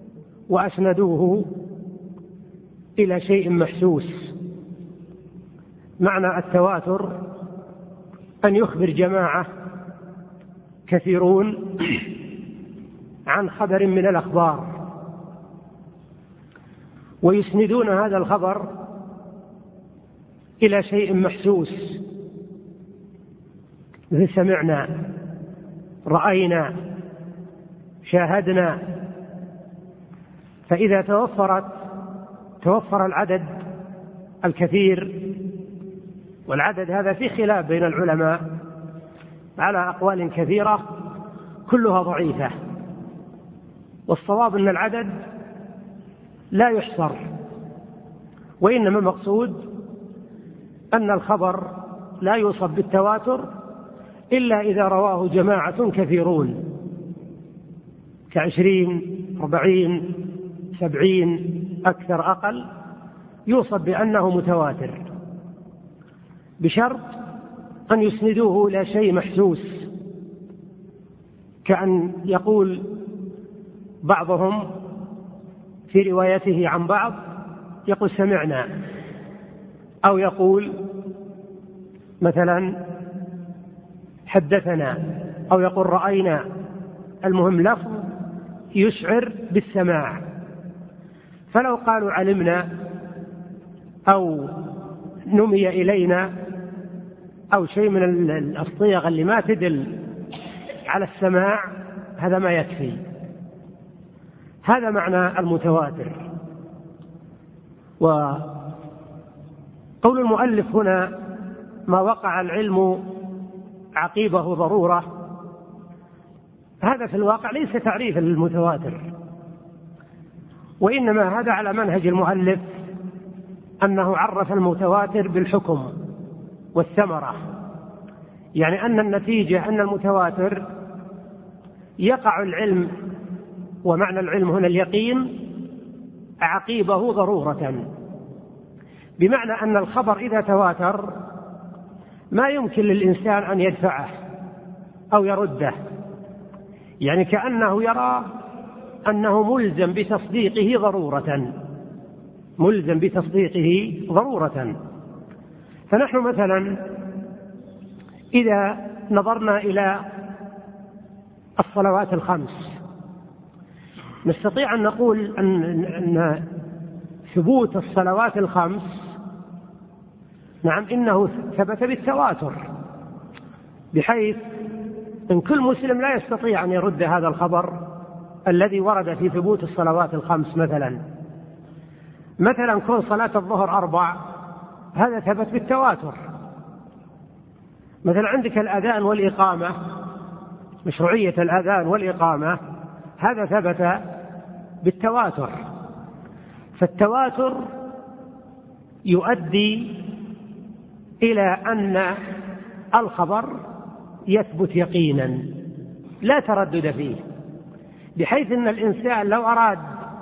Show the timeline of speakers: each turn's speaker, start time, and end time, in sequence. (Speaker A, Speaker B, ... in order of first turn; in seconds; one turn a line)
Speaker A: 0.5-1.5
Speaker A: 3.0-4.3
Speaker A: 6.0-7.2
Speaker A: 8.4-9.5
Speaker A: 10.9-12.0
Speaker A: 13.3-14.7
Speaker A: 17.2-18.7
Speaker A: 20.6-22.0
Speaker A: 24.1-25.0
Speaker A: 26.1-26.7
Speaker A: 28.0-28.8
Speaker A: 30.7-31.7
Speaker A: 32.6-33.6
Speaker A: 34.4-35.3
Speaker A: 36.5-38.5
Speaker A: 39.6-40.9
Speaker A: 41.7-42.5
Speaker A: 44.1-45.2
Speaker A: 46.5-47.2
Speaker A: 48.6-49.7
Speaker A: 50.9-53.5
Speaker A: 54.3-56.6
Speaker A: 58.3-62.7
Speaker A: 63.5-65.0
Speaker A: 66.6-67.1
Speaker A: 67.9-69.9
Speaker A: 71.7-72.9
Speaker A: 74.0-74.7
Speaker A: 75.9-77.2
Speaker A: 77.9-78.7
Speaker A: 80.0-80.8
Speaker A: 82.2-82.8
Speaker A: 84.3-86.4
Speaker A: 87.2-88.1
Speaker A: 88.8-90.2
Speaker A: 91.5-92.7
Speaker A: 94.1-94.7
Speaker A: 95.3-96.3
Speaker A: 97.5-100.0
Speaker A: 100.9-101.6
Speaker A: 102.2-103.0
Speaker A: 104.6-106.2
Speaker A: 108.0-108.7
Speaker A: 110.0-111.2
Speaker A: 111.9-113.1
Speaker A: 114.0-115.1
Speaker A: 116.8-119.0
Speaker A: 120.8-122.7
Speaker A: 123.8-125.9
Speaker A: 126.8-127.4
Speaker A: 128.6-130.7
Speaker A: 132.0-132.9
Speaker A: 133.8-135.4
Speaker A: 136.4-137.8
Speaker A: 139.2-141.2
Speaker A: 142.3-144.2
Speaker A: 145.1-145.8
Speaker A: 147.0-148.3
Speaker A: 149.1-151.5
Speaker A: 152.6-154.8
Speaker A: 155.9-156.8
Speaker A: 158.3-160.0
Speaker A: 161.6-162.8
Speaker A: 164.2-166.5
Speaker A: 167.3-169.2
Speaker A: 170.6-172.6
Speaker A: 173.9-174.4
Speaker A: 175.3-177.8
Speaker A: 178.5-181.0
Speaker A: 182.4-184.2
Speaker A: 184.9-186.2
Speaker A: 188.0-189.8
Speaker A: 190.8-192.6
Speaker A: 193.2-194.0
Speaker A: 194.8-195.6
Speaker A: 196.8-197.6
Speaker A: 199.1-200.0
Speaker A: 201.2-202.2
Speaker A: 202.9-203.6
Speaker A: 204.3-205.4
Speaker A: 206.2-207.2
Speaker A: 208.2-209.8